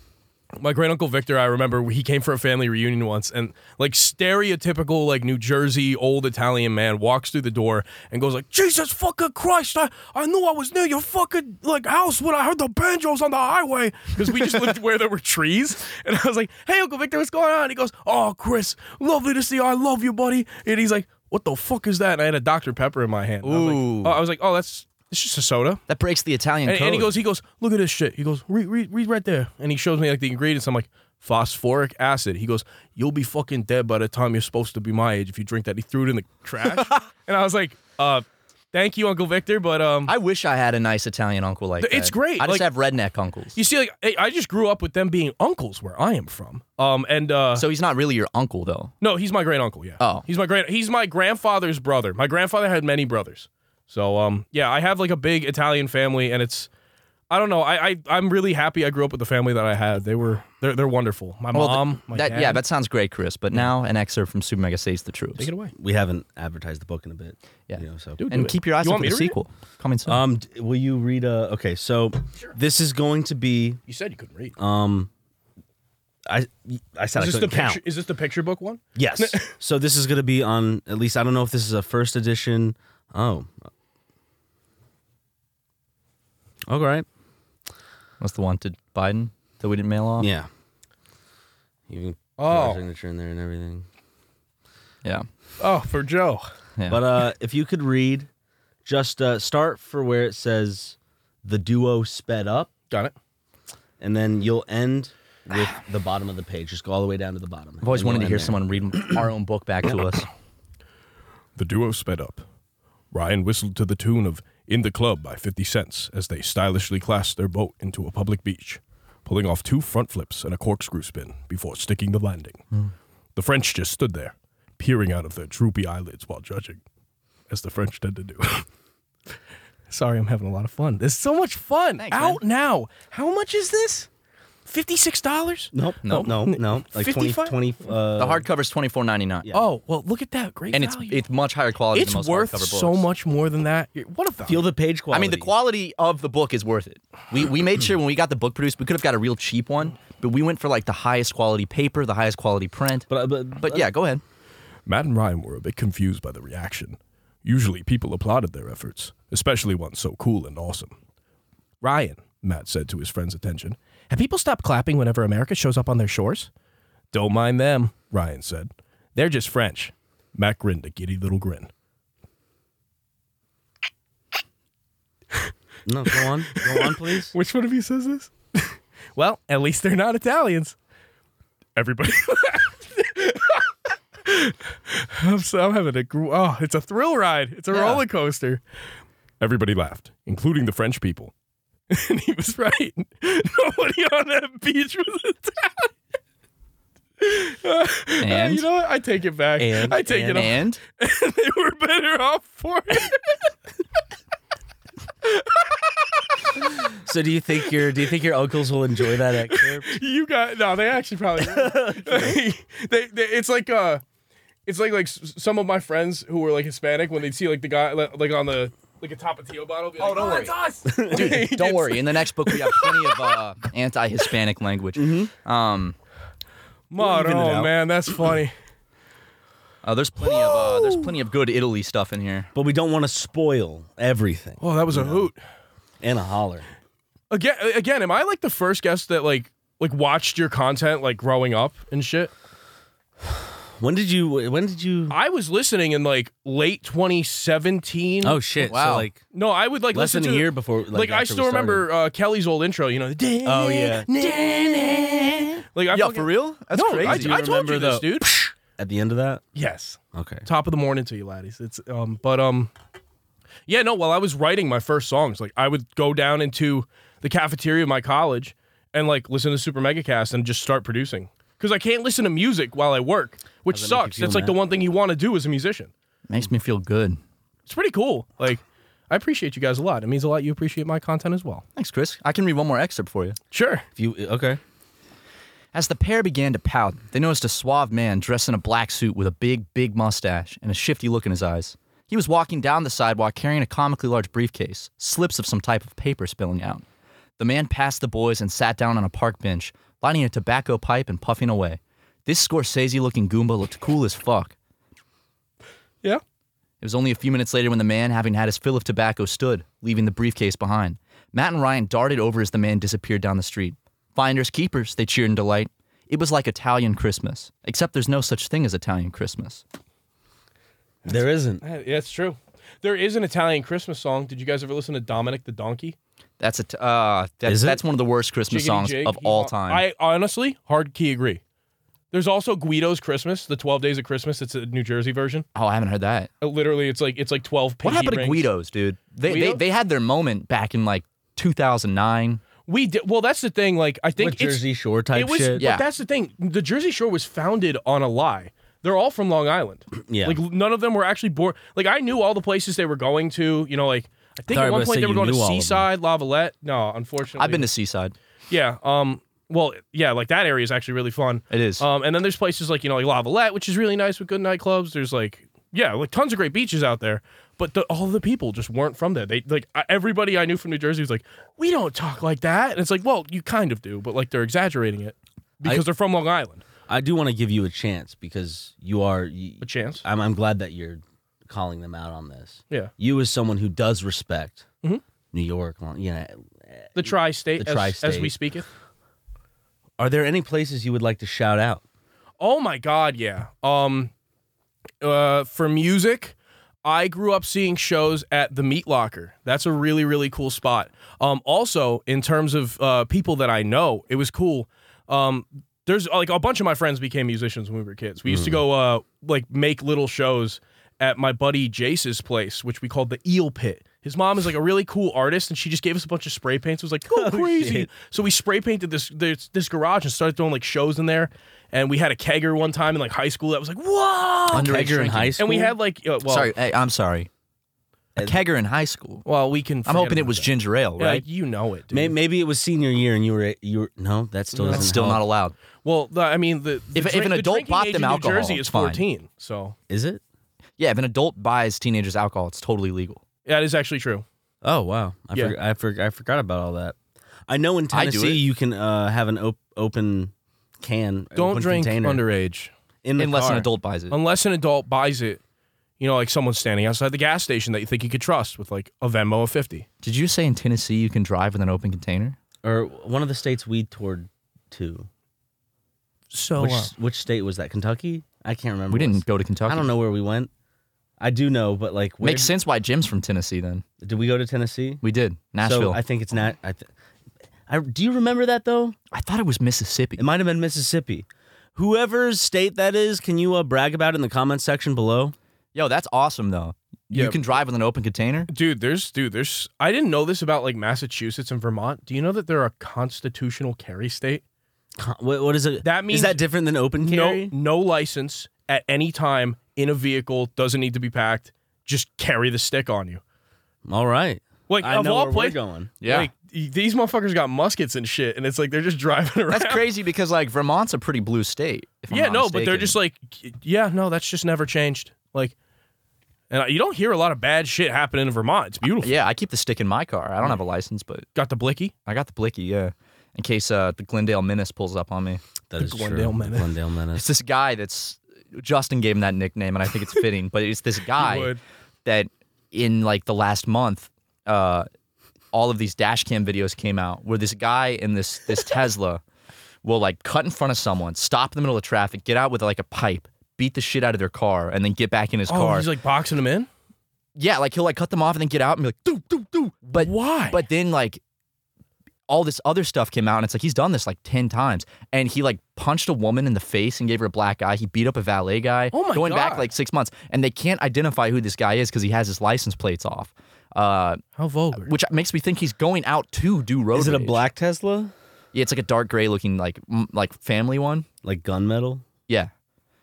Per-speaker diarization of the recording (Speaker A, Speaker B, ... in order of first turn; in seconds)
Speaker A: 0.6-25.8, 26.6-40.1, 41.8-42.7, 43.5-47.7, 49.0-56.7, 57.3-62.6, 65.4-65.7, 68.2-69.4, 73.9-74.5, 77.2-79.5, 92.4-92.8, 95.6-96.5, 111.6-112.4, 113.1-122.6, 123.4-126.8, 127.5-128.7, 129.9-134.1, 134.7-137.6, 139.5-141.2, 141.9-144.7, 154.9-160.9, 161.8-166.5, 167.1-171.7, 176.1-180.8, 181.8-183.7, 184.2-188.6, 189.4-191.3, 191.9-195.9, 197.2-203.4, 205.3-205.8, 209.3-214.0, 214.7-223.4, 226.9-228.5, 234.6-235.4, 237.3-242.3, 245.1-248.7, 249.3-258.3, 259.6-262.7, 263.7-275.9, 277.7-281.6, 283.5-283.9, 321.1-326.0, 328.5-331.4, 332.1-335.5, 336.4-338.5, 339.3-339.6, 342.7-357.7, 358.5-376.6, 379.6-380.1, 387.0-388.7, 392.4-394.1, 395.0-424.8, 425.4-426.5, 429.2-432.2, 434.6-434.9, 435.8-439.8, 443.4-444.2, 451.4-452.7, 454.1-455.4, 456.0-459.9, 466.3-466.9, 487.1-487.4, 488.5-494.4, 495.8-496.4, 497.0-503.2, 504.7-509.9, 512.1-515.5, 516.5-519.1, 521.4-521.9, 525.8-526.7, 531.2-531.6, 545.5-546.7, 549.9-550.6, 558.9-559.7, 564.4-564.9
Speaker B: 23.4-24.2, 25.9-27.1, 40.1-43.6, 47.5-48.9, 50.0-50.2, 61.5-65.5, 67.7-70.2, 88.2-90.3, 96.8-97.0, 107.8-110.3, 132.0-132.4, 136.1-136.4, 138.2-139.5, 140.7-143.1, 145.1-154.2, 187.7-188.0, 198.2-198.7, 200.2-200.8, 220.0-220.6, 221.1-226.0, 229.8-232.5, 248.7-249.1, 255.9-257.4, 276.3-277.2, 281.8-283.4, 285.7-296.9, 297.4-304.6, 306.8-319.6, 326.4-329.9, 335.6-336.3, 337.8-342.4, 345.6-345.9, 357.4-358.1, 361.5-361.9, 424.5-425.4, 426.2-427.3, 428.2-429.3, 429.9-431.2, 434.6-435.6, 436.9-439.0, 440.8-443.2, 447.9-448.4, 453.2-454.2, 460.0-462.4, 468.9-469.9, 472.2-473.9, 475.0-476.0, 479.1-480.2, 485.8-488.5, 506.0-506.3, 509.5-513.0, 519.0-521.3, 522.1-525.4, 527.1-531.5, 532.0-534.9, 535.5-539.2, 539.8-545.9, 547.4-551.2, 552.3-564.2, 564.7-567.4, 568.5-571.1
Speaker C: 65.8-68.2, 70.1-73.8, 74.6-75.1, 76.3-77.8, 79.0-83.5, 86.7-87.1, 90.2-90.5, 91.9-93.9, 96.9-98.3, 98.8-102.7, 104.0-109.2, 135.7-138.5, 144.5-145.5, 153.1-153.9, 175.9-177.3, 199.6-200.5, 207.1-210.0, 211.4-212.4, 220.9-221.4, 225.0-225.3, 227.0-227.7, 232.5-235.3, 236.0-236.7, 243.8-245.2, 248.2-249.2, 249.9-251.9, 253.4-255.6, 257.0-259.4, 260.1-260.4, 273.7-274.6, 284.0-284.6, 321.1-321.6, 327.5-327.8, 344.2-345.6, 350.0-350.4, 354.5-355.9, 376.9-384.7, 385.3-388.3, 390.0-391.8, 408.3-408.6, 417.1-417.9, 424.5-425.8, 431.9-435.2, 439.9-440.2, 444.6-447.0, 447.5-452.2, 453.0-453.7, 462.6-465.1, 466.6-470.5, 471.2-472.5, 474.0-475.0, 475.6-476.9, 477.7-479.0, 480.2-485.4, 495.0-497.5, 503.9-505.9, 525.7-527.2, 566.9-568.1, 571.2-572.1